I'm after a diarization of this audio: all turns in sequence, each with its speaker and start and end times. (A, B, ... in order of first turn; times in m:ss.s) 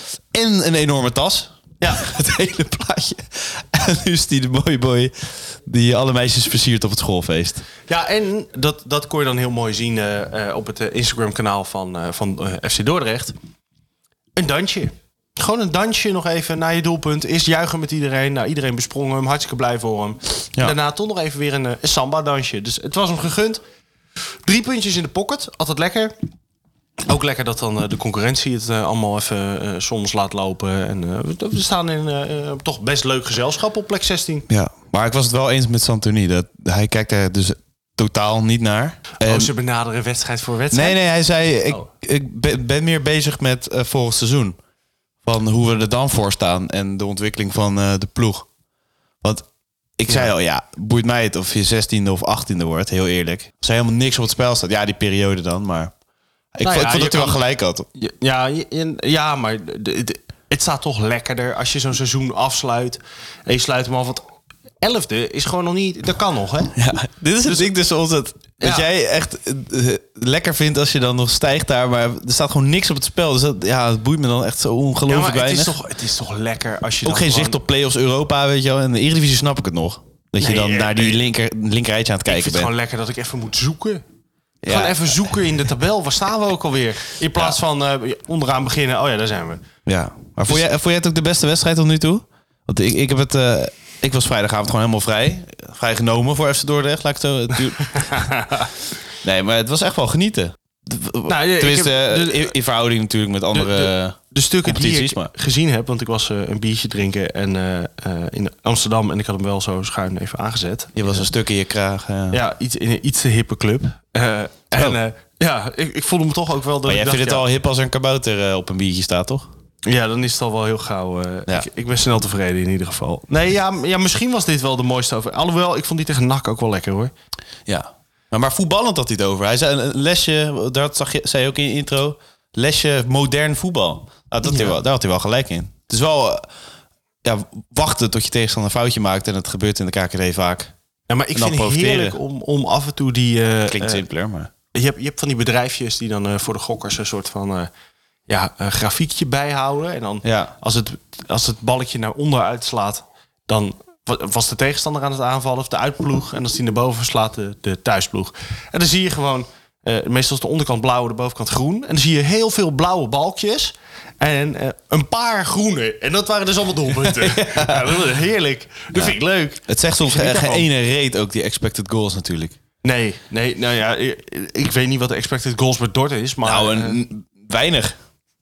0:00.3-0:07.6 A
0:07.9-0:13.3 B
0:14.4-0:23.6 B
0:24.4-0:26.1 B
0:27.0-0:34.5 B
0:34.5-0:39.5 A
0:39.2-0:41.0 B
0:40.7-0:44.6 A
0:45.2-0:48.5 A
0:50.0-0:55.9 A
0:56.5-0:57.9 A
0:56.6-0:57.4 B
0:58.0-1:04.2 B
1:04.8-1:06.7 B
1:06.8-1:15.7 A
1:07.4-1:07.7 B
1:08.6-1:08.9 B
1:15.1-1:17.6 B
1:17.0-1:22.7 A
1:20.4-1:21.2 B
1:22.3-1:24.0 B
1:24.6-1:25.1 A
1:24.7-1:29.6 B
1:29.8-1:38.1 A
1:37.8-1:38.7 B
1:39.2-1:45.3 A
1:41.3-1:42.5 B
1:43.5-1:51.3 B
1:51.0-1:52.4 A
1:52.3-1:57.5 B
1:56.8-1:59.5 A
1:59.8-2:07.1 B
2:07.7-2:16.4 A
2:14.4-2:14.8 B
2:17.2-2:20.7 A
2:21.1-2:24.0 B
2:21.3-2:22.2 A
2:23.7-2:24.5 A
2:24.7-2:27.7 B
2:28.3-2:50.7 B
2:30.2-2:30.5 A
2:47.1-2:48.0 A
2:49.7-2:52.6 A
2:52.8-2:57.0 B
2:56.4-2:58.0 A